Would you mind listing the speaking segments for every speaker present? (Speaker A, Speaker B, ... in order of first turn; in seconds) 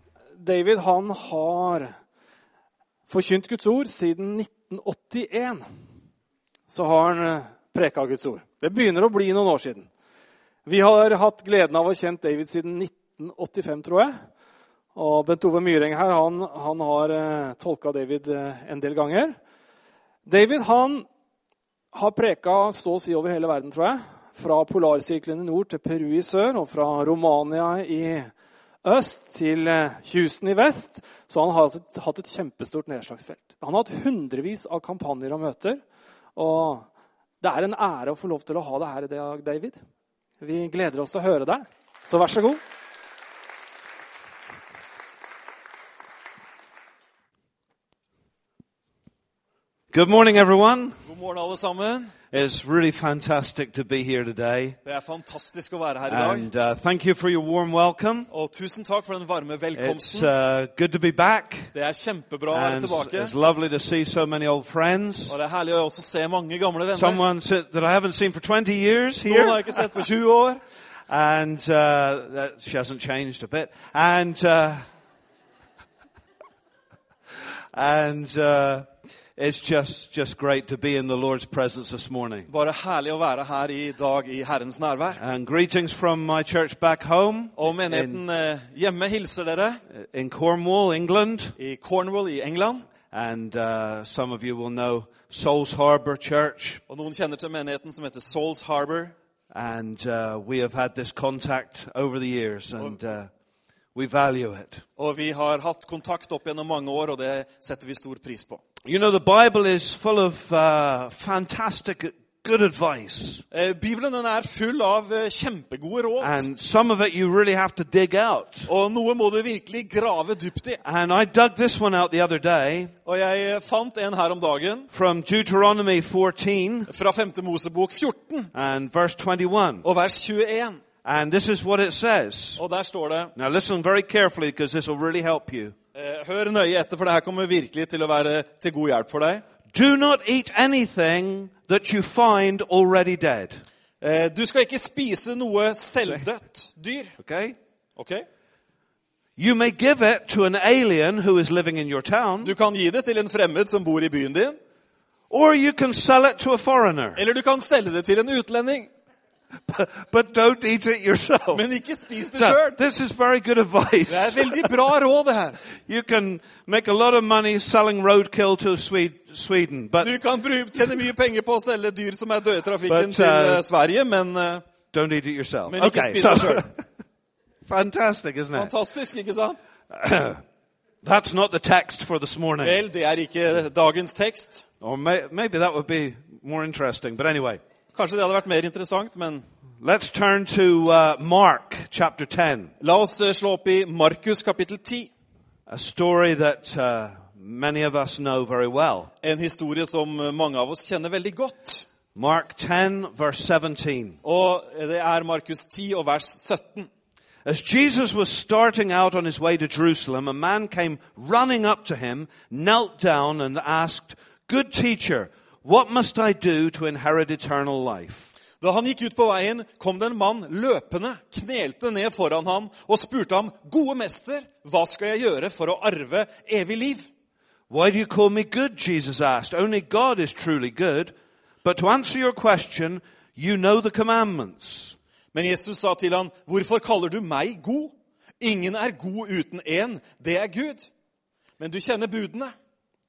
Speaker A: 0.4-1.9, 3.1-5.7, 6.7-9.9, 10.7-14.2, 14.9-19.4, 20.3-21.1, 21.9-28.3, 28.8-35.8, 36.4-36.9, 37.4-39.8, 40.4-42.6
Speaker B: 49.9-51.0, 52.3-54.8, 56.1-58.3, 59.8-61.7, 62.5-65.4, 66.9-70.0, 71.1-74.8, 77.7-82.5, 85.2-88.2, 89.9-91.5, 93.1-96.8, 99.5-103.3, 104.0-104.8, 108.8-113.4, 116.2-118.7, 120.8-122.9, 124.9-126.9, 128.5-129.8, 131.1-132.6, 133.3-135.8, 139.7-143.6, 147.2-147.6, 149.4-152.5, 155.3-157.2, 159.7-161.6, 162.4-164.7, 165.8-170.1, 172.9-173.6, 174.9-176.8, 177.7-178.7, 179.9-180.4, 181.0-182.8, 184.8-187.6, 189.8-192.7, 195.7-199.1, 202.2-204.2, 207.4-218.3, 227.7-234.9
Speaker C: 51.0-52.2, 54.9-56.5, 58.3-60.3, 61.7-63.3, 65.3-67.2, 69.3-70.6, 82.5-85.2, 87.6-89.8, 91.6-92.8, 96.9-99.2, 105.0-108.6, 113.5-116.5, 118.7-120.8, 123.0-124.9, 126.9-128.5, 129.8-130.8, 132.6-133.3, 135.9-139.4, 144.0-147.2, 148.0-148.3, 152.4-154.6, 157.2-158.9, 161.5-162.8, 164.1-165.6, 170.0-174.6, 175.7-176.7, 178.5-179.6, 182.6-184.7, 187.9-189.4, 192.8-195.1, 199.2-201.9, 204.2-206.9, 218.6-227.1, 235.3-240.9, 241.6-242.5